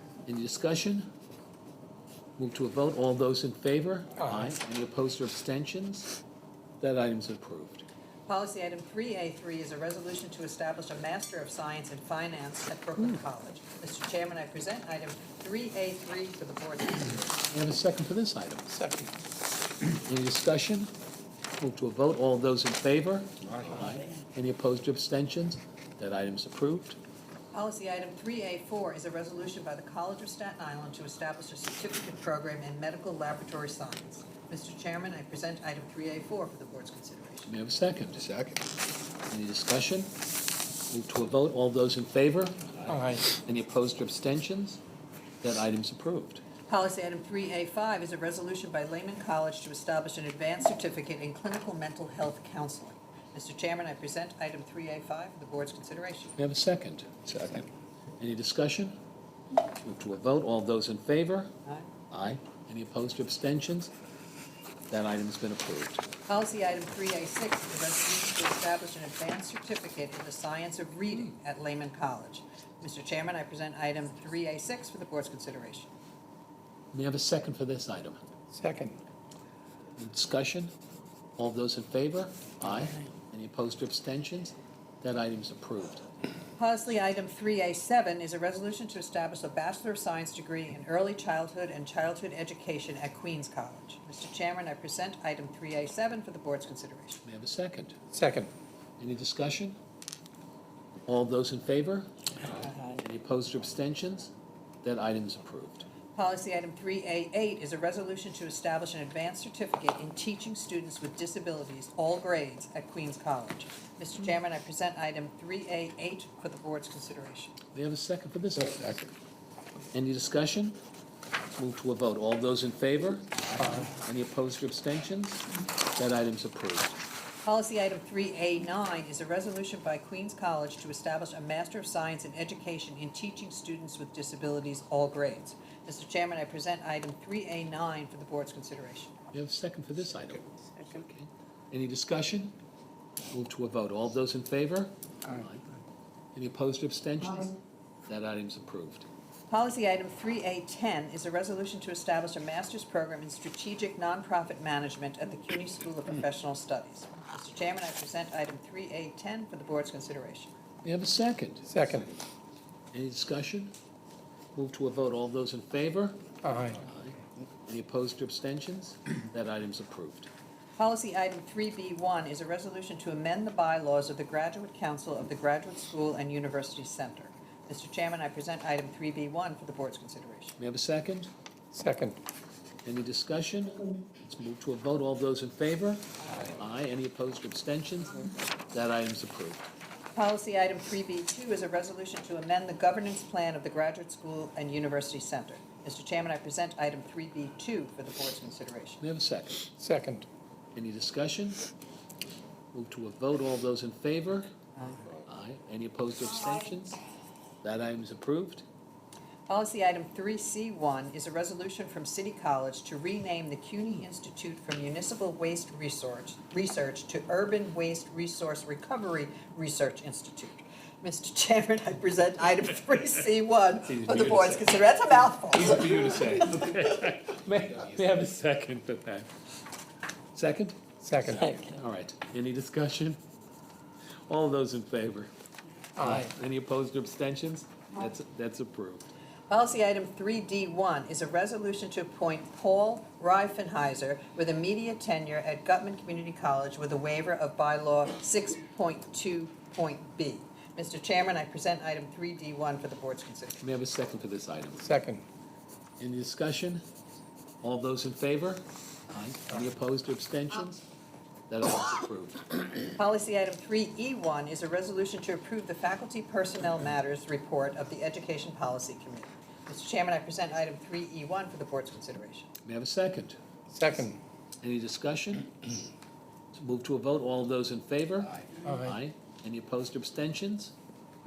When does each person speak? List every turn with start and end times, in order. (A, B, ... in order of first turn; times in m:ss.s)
0:00.2-0:01.1 A
0:02.4-0:06.1 A
0:06.8-0:07.8 A
0:08.3-0:17.4 B
0:17.5-0:18.7 A
0:18.7-0:19.1 C
0:19.9-0:20.9 A
0:21.6-0:27.0 A
0:27.5-0:37.5 B
0:37.5-0:38.3 A
0:39.3-0:40.1 A
0:40.9-0:44.8 A
0:42.9-0:43.2 C
0:45.4-0:46.4 A
0:46.7-0:56.4 B
0:56.4-0:57.6 A
0:58.2-0:59.0 A
0:59.8-1:01.5 A
1:01.6-1:01.9 B
1:02.1-1:03.9 A
1:04.9-1:06.0 A
1:06.3-1:15.9 B
1:16.9-1:18.2 A
1:18.5-1:19.0 C
1:20.0-1:20.7 A
1:21.4-1:26.0 A
1:26.6-1:37.2 B
1:37.2-1:38.0 A
1:38.1-1:38.5 C
1:39.0-1:39.8 A
1:41.1-1:44.3 A
1:44.8-1:45.8 A
1:46.2-1:57.6 B
1:57.7-1:59.0 A
1:59.9-2:00.8 A
2:01.6-2:07.0 A
2:07.4-2:19.1 B
2:19.3-2:22.6 A
2:23.3-2:25.7 A
2:26.3-2:27.5 A
2:28.1-2:29.1 A
2:29.5-2:40.5 B
2:40.8-2:41.8 A
2:41.7-2:42.1 C
2:42.9-2:43.7 A
2:44.5-2:46.2 A
2:46.4-2:46.8 C
2:46.7-2:50.3 A
2:50.8-3:00.6 B
3:00.6-3:01.3 A
3:01.7-3:02.2 C
3:02.8-3:09.6 A
3:10.1-3:19.0 B
3:19.0-3:19.6 A
3:19.8-3:20.3 C
3:20.7-3:21.6 A
3:22.7-3:24.5 A
3:24.8-3:25.2 B
3:25.3-3:27.0 A
3:27.6-3:28.6 A
3:29.5-3:46.4 B
3:43.9-3:44.8 A
3:45.4-3:49.3 A
3:50.3-3:53.2 A
3:51.0-3:51.5 C
3:54.3-3:55.3 A
3:56.0-3:56.2 C
3:56.0-3:59.1 A
3:59.5-4:13.6 B
4:13.6-4:14.9 A
4:14.8-4:15.2 C
4:16.0-4:16.8 A
4:17.6-4:20.8 A
4:21.5-4:23.0 A
4:23.0-4:32.5 B
4:32.6-4:33.4 A
4:33.7-4:34.2 C
4:34.6-4:35.7 A
4:36.5-4:40.7 A
4:38.6-4:39.0 C